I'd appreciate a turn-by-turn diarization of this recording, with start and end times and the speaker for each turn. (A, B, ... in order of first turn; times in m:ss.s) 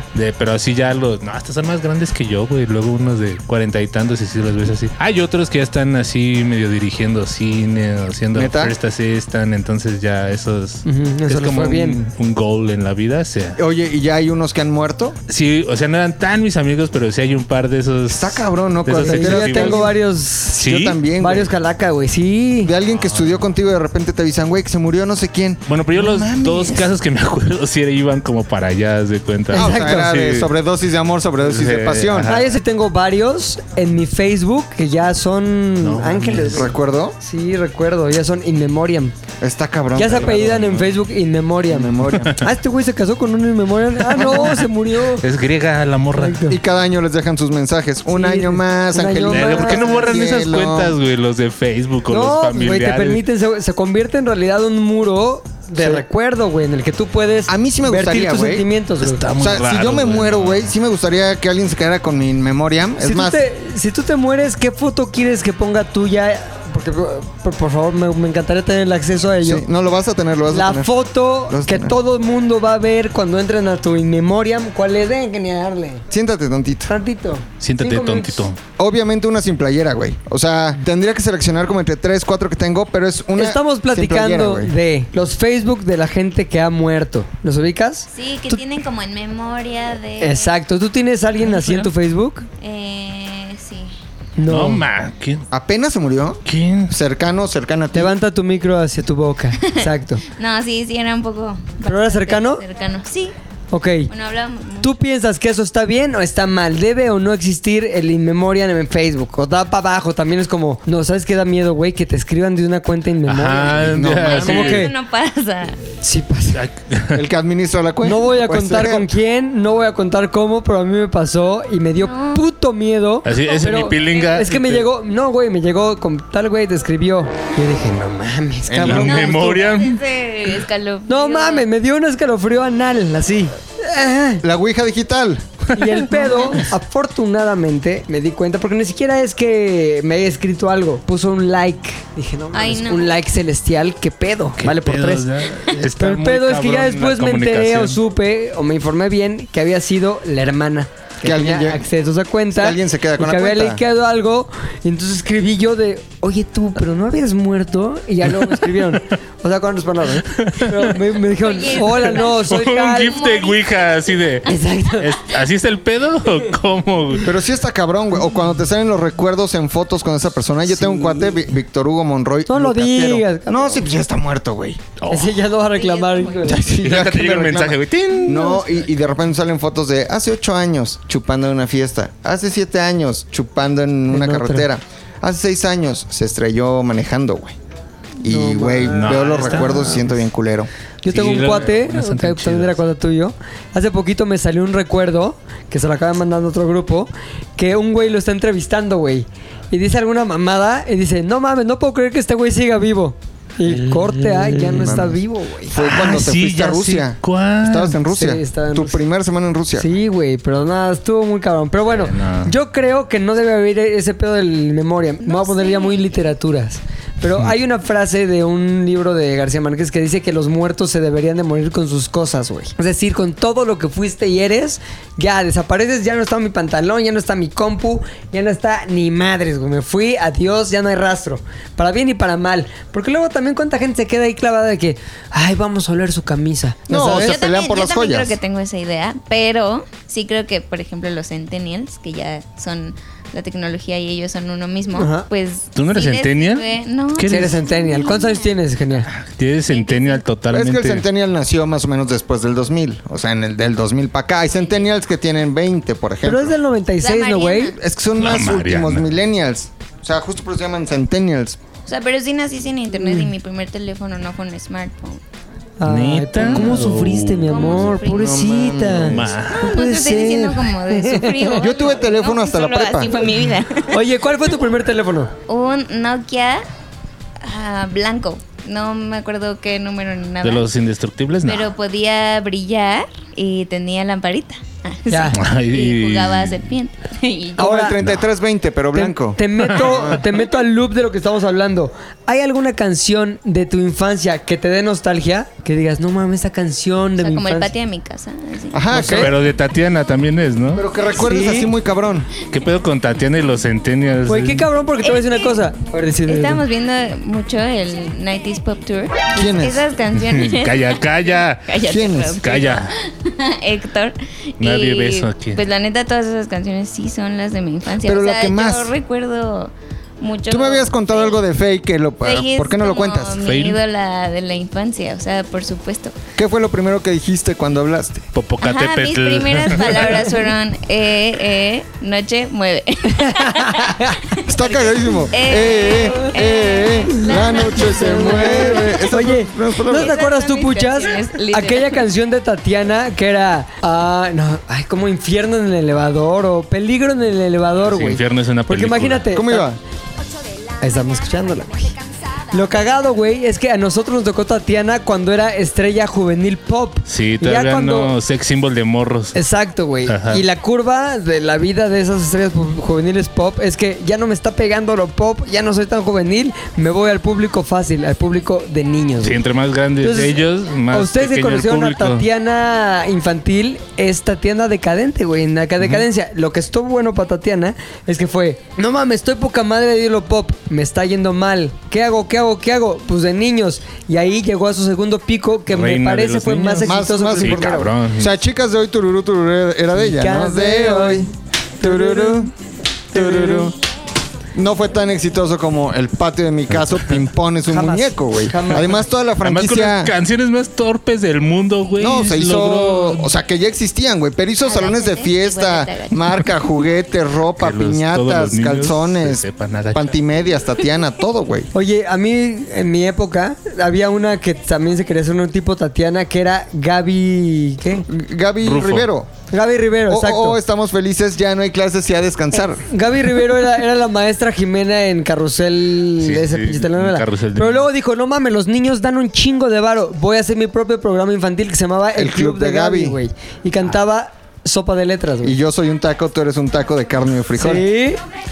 0:00.1-0:13.6 A
0:08.3-0:08.7 B
0:10.8-0:12.0 C
0:13.6-0:15.2 B
0:15.3-0:19.9 A
0:18.1-0:19.9 B
0:19.0-0:20.6 C
0:20.5-0:21.5 B
0:20.6-0:21.0 A
0:21.2-0:22.7 C
0:22.6-0:26.9 B
0:22.9-0:23.4 A
0:25.7-0:30.5 A
0:29.5-0:30.1 C
0:29.5-0:32.3 B
0:31.4-0:32.5 A
0:32.3-0:36.7 C
0:35.8-0:36.7 A
0:36.5-0:37.2 B
0:37.2-0:39.1 C
0:39.4-0:40.9 B
0:40.0-0:45.2 C
0:41.7-0:42.4 B
0:42.1-0:42.4 A
0:44.1-0:46.4 A
0:46.1-0:46.6 C
0:46.5-0:51.0 B
0:48.1-0:50.1 C
0:49.3-0:53.2 A
0:52.1-0:59.2 C
0:55.8-0:56.0 B
0:57.5-0:58.7 B
0:59.0-1:00.7 A
0:59.4-1:03.4 B
1:03.0-1:09.6 C
1:09.4-1:10.9 B
1:10.5-1:16.0 C
1:11.5-1:11.9 B
1:16.1-1:16.9 B
1:16.9-1:18.5 C
1:17.6-1:18.6 A
1:18.8-1:24.7 B
1:23.4-1:28.6 C
1:28.1-1:30.5 D
1:30.2-1:32.4 C
1:31.4-1:31.9 A
1:32.6-1:33.9 D
1:34.4-1:34.8 C
1:34.5-1:35.4 A
1:35.5-1:38.1 B
1:36.4-1:36.9 A
1:37.9-1:40.2 C
1:39.6-1:43.3 D
1:41.8-1:42.6 C
1:43.7-1:44.1 C
1:44.1-1:45.0 D
1:44.8-1:54.9 C
1:53.2-1:54.9 A
1:53.8-1:54.7 B
1:54.2-1:55.8 D
1:56.0-1:56.6 C
1:56.5-1:57.2 A
1:57.1-1:59.1 B
1:58.0-2:09.5 C
2:02.0-2:02.4 D
2:03.2-2:04.9 A
2:08.6-2:09.4 B
2:08.8-2:10.0 A
2:08.9-2:11.7 D
2:11.1-2:14.4 C
2:14.4-2:15.5 B
2:15.7-2:43.2 C
2:22.5-2:23.2 D
2:24.6-2:28.0 A
2:31.2-2:31.8 B
2:32.5-2:33.8 B
2:38.4-2:39.0 A
2:40.3-2:40.9 A
2:41.3-2:43.7 D
2:41.8-2:44.4 A
2:44.4-2:45.1 C
2:45.0-2:47.3 A
2:47.2-2:54.9 B
2:50.7-2:51.4 C
2:52.5-2:53.8 C
2:55.0-2:55.4 A
2:55.1-2:56.6 C
2:55.7-2:56.7 D
2:56.4-3:07.6 B
2:56.8-2:58.6 A
3:04.1-3:04.7 C
3:08.2-3:10.7 B
3:08.2-3:09.2 C
3:08.9-3:10.2 A
3:11.0-3:25.8 C
3:11.1-3:12.8 A
3:23.7-3:25.1 A
3:25.7-3:29.9 B
3:25.8-3:28.0 A
3:28.1-3:29.0 C
3:29.7-3:57.4 C
3:31.9-3:32.5 A
3:35.2-3:36.2 D
3:56.9-3:58.4 B
3:57.1-4:08.6 D
4:04.9-4:05.3 C
4:05.7-4:06.6 A
4:07.2-4:07.6 A
4:07.3-4:09.1 C
4:09.1-4:11.0 A
4:09.7-4:10.2 D
4:10.5-4:16.6 B
4:16.2-4:17.7 C
4:17.0-4:17.8 D
4:17.7-4:21.6 B
4:18.2-4:19.0 A
4:21.9-4:25.2 D
4:23.0-4:23.3 C
4:25.8-4:31.6 C
4:25.9-4:27.9 A
4:27.4-4:28.5 D
4:28.1-4:29.3 B
4:29.0-4:29.7 A
4:29.5-4:34.0 D
4:31.6-4:33.2 B
4:33.9-4:35.3 C
4:35.5-4:36.6 D
4:37.4-4:40.6 D
4:40.4-4:41.7 A
4:41.4-4:47.8 D
4:45.1-4:45.4 C
4:45.3-4:46.7 A
4:47.6-4:48.0 C
4:47.6-4:50.2 B
4:48.9-4:57.7 C
4:57.2-4:58.8 D
4:58.7-4:59.3 B
4:58.9-4:59.3 C
4:58.9-5:00.8 A
5:00.7-5:02.3 B
5:01.2-5:01.7 C
5:02.5-5:04.7 A
5:04.2-5:06.6 C
5:05.0-5:05.6 D
5:06.2-5:21.4 D
5:09.3-5:09.8 B
5:10.1-5:11.7 A
5:11.8-5:12.4 B
5:12.4-5:12.9 A
5:14.6-5:15.6 A
5:18.0-5:18.9 B
5:20.5-5:23.4 B
5:22.2-5:26.1 D
5:23.4-5:23.8 A
5:26.4-5:28.2 B
5:28.3-5:30.2 A
5:28.6-5:38.8 D
5:33.1-5:34.2 C
5:34.5-5:40.2 B
5:37.1-5:49.7 C
5:39.9-5:42.0 D
5:47.8-5:49.2 A
5:49.3-5:49.8 B
5:50.8-5:52.0 C
5:52.5-5:58.1 C
5:57.1-5:59.3 A
5:59.3-6:09.4 C
6:00.1-6:00.4 A
6:09.2-6:12.2 A
6:10.0-6:27.9 C
6:15.8-6:16.0 A
6:25.7-6:28.3 A
6:26.8-6:32.5 B
6:29.9-6:32.5 C
6:33.1-6:33.7 B
6:33.1-6:33.7 C
6:34.5-6:40.1 B
6:36.7-6:37.1 A
6:37.7-6:39.0 C
6:39.4-6:43.3 A
6:42.0-6:51.7 B
6:44.6-6:46.5 D
6:47.6-6:50.2 A
6:51.7-6:58.0 C
6:58.1-6:59.3 B
6:58.6-6:59.1 A
6:59.5-7:00.6 C
7:00.1-7:02.8 B
7:02.9-7:15.6 C
7:06.2-7:07.9 A
7:12.1-7:13.2 B
7:15.4-7:17.8 B
7:17.6-7:18.2 C